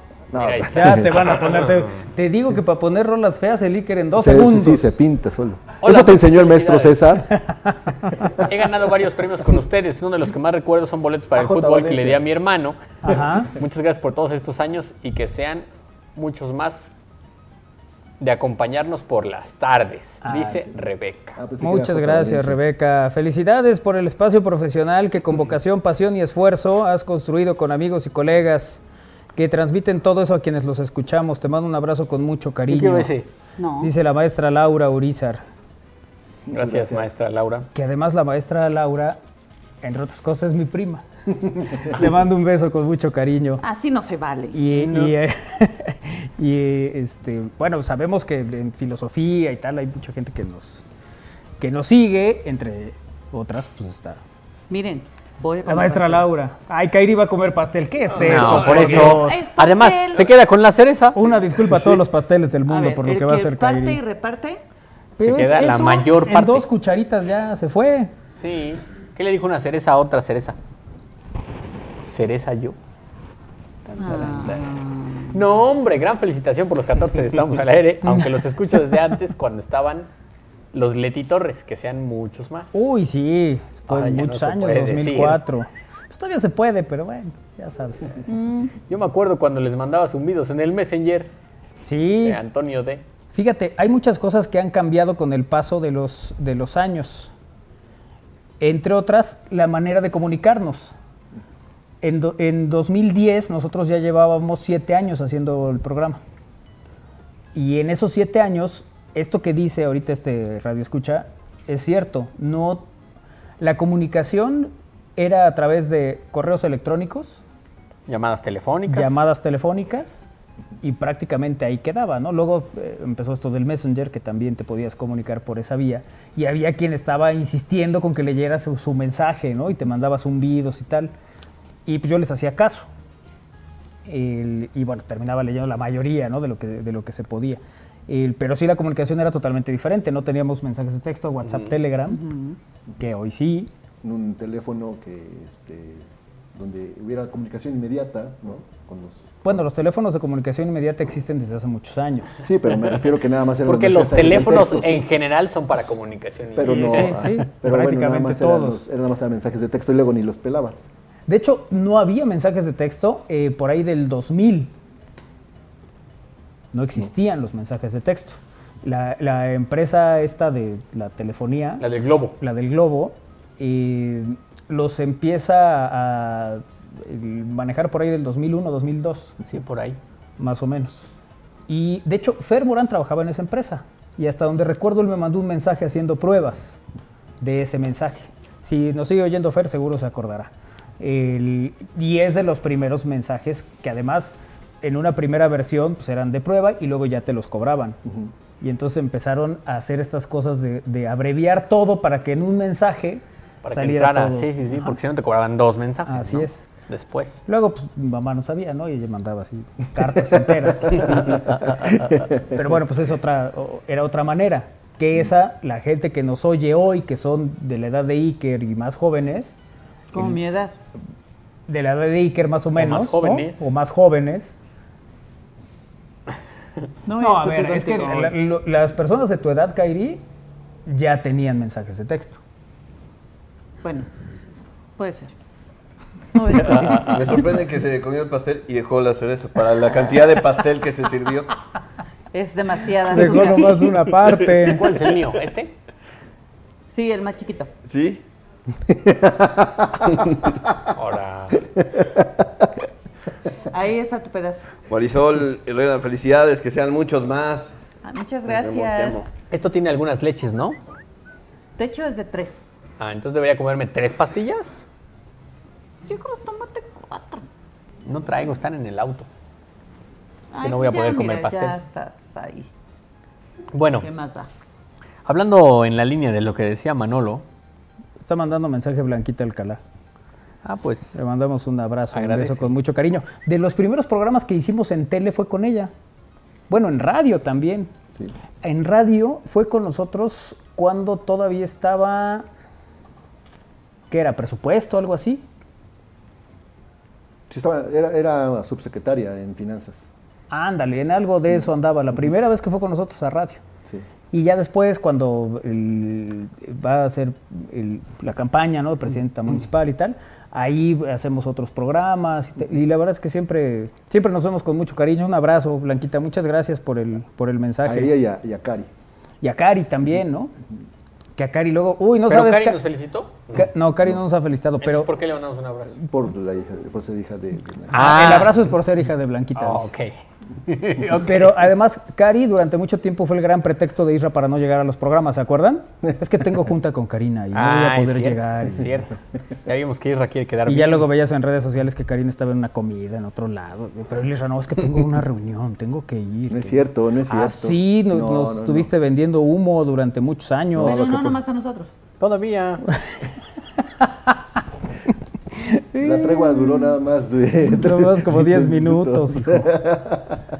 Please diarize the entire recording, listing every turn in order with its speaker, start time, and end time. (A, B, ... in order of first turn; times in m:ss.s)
0:00.3-0:01.1 A
0:00.3-0:01.7 B
0:00.7-0:04.9 C
0:04.2-0:07.3 A
0:05.8-0:07.2 B
0:07.3-0:08.3 C
0:08.4-0:12.8 B
0:11.3-0:12.2 A
0:13.0-0:13.5 C
0:13.5-0:16.9 B
0:18.2-0:21.4 B
0:20.2-0:20.6 C
0:21.4-0:22.6 A
0:21.6-0:28.8 C
0:29.4-0:33.1 C
0:32.7-0:33.3 B
0:33.6-0:33.9 D
0:33.8-0:35.4 C
0:36.5-0:37.1 A
0:36.5-0:37.7 B
0:37.7-0:39.2 C
0:39.8-0:43.6 C
0:43.6-0:44.6 D
0:44.5-0:50.8 C
0:44.7-0:45.1 B
0:51.6-0:54.2 C
0:54.7-0:56.2 D
0:55.6-0:59.4 C
0:58.1-1:00.3 D
0:58.2-1:02.0 B
1:01.1-1:04.0 C
1:02.6-1:04.6 D
1:05.2-1:08.1 C
1:05.2-1:06.6 B
1:08.4-1:10.6 B
1:12.1-1:12.8 B
1:13.9-1:14.4 C
1:14.0-1:15.4 D
1:15.3-1:20.1 B
1:18.0-1:18.4 C
1:20.7-1:22.9 B
1:22.7-1:28.2 C
1:23.9-1:25.4 B
1:28.3-1:28.7 D
1:28.9-1:31.3 B
1:31.8-1:32.4 C
1:32.1-1:33.0 B
1:33.3-1:37.3 C
1:38.6-1:40.9 C
1:42.0-1:46.2 C
1:47.5-1:52.8 C
1:53.6-1:57.4 C
1:58.1-1:59.3 B
1:58.9-2:00.2 C
2:00.8-2:11.1 C
2:11.8-2:12.9 C
2:14.0-2:22.2 C
2:22.1-2:22.6 D
2:23.0-2:23.7 C
2:24.0-2:29.4 A
2:29.4-2:32.4 C
2:32.4-2:35.0 A
2:33.6-2:37.3 B
2:36.5-2:40.8 A
2:36.6-2:38.8 C
2:41.3-2:44.7 C
2:46.7-2:51.8 C
2:51.8-2:52.4 B
2:52.4-2:59.3 C
2:59.4-3:00.0 B
3:00.4-3:01.1 C
3:01.7-3:06.8 C
3:07.4-3:18.0 C
3:18.0-3:18.3 A
3:18.6-3:24.5 C
3:23.6-3:27.4 B
3:26.1-3:26.6 C
3:27.5-3:31.4 C
3:32.4-3:39.5 C
3:40.1-3:40.8 D
3:41.7-3:44.5 C
3:42.7-3:43.7 B
3:47.0-3:48.4 D
3:47.2-3:50.2 C
3:50.9-3:52.4 C
3:53.8-3:54.1 D
3:55.0-3:55.3 D
3:56.3-3:57.3 D
3:56.5-4:01.5 E
4:02.3-4:03.9 D
4:03.1-4:05.0 C
4:04.3-4:05.7 B
4:06.9-4:07.7 D
4:07.9-4:08.2 E
4:08.9-4:09.8 A
4:10.9-4:11.6 B
4:12.0-4:12.4 A
4:13.7-4:14.6 D
4:14.9-4:17.7 E
4:18.0-4:19.3 D
4:18.4-4:19.2 E
4:19.5-4:20.8 B
4:21.8-4:22.7 D
4:23.0-4:24.8 B
4:26.0-4:27.4 D
4:28.0-4:29.3 B
4:30.5-4:32.7 D
4:30.5-4:31.8 B
4:33.7-4:34.1 B
4:34.0-4:34.5 D
4:35.2-4:37.4 B
4:38.2-4:39.8 C
4:40.6-4:41.2 B
4:41.1-4:45.9 C
4:42.1-4:42.7 B
4:46.7-4:47.9 C
4:48.6-4:52.4 C
4:54.1-4:55.4 C
4:57.5-5:00.1 A
5:00.5-5:03.6 C
5:04.3-5:18.1 C
5:17.8-5:18.9 A
5:19.4-5:20.5 C
5:21.4-5:22.8 C
5:22.3-5:23.6 B
5:23.5-5:25.1 C
5:24.8-5:26.0 B
5:26.0-5:28.2 A
5:27.9-5:28.6 B
5:27.9-5:29.9 C
5:29.6-5:30.1 B
5:30.7-5:31.7 B
5:31.2-5:38.9 C
5:37.5-5:41.1 B
5:40.6-5:51.0 C
5:46.5-5:48.9 A
5:50.7-5:51.4 A
5:50.8-5:51.9 D
5:52.2-5:52.8 B
5:52.9-5:53.3 C
5:55.5-5:56.9 C
5:56.0-6:00.4 A
5:57.7-5:59.7 C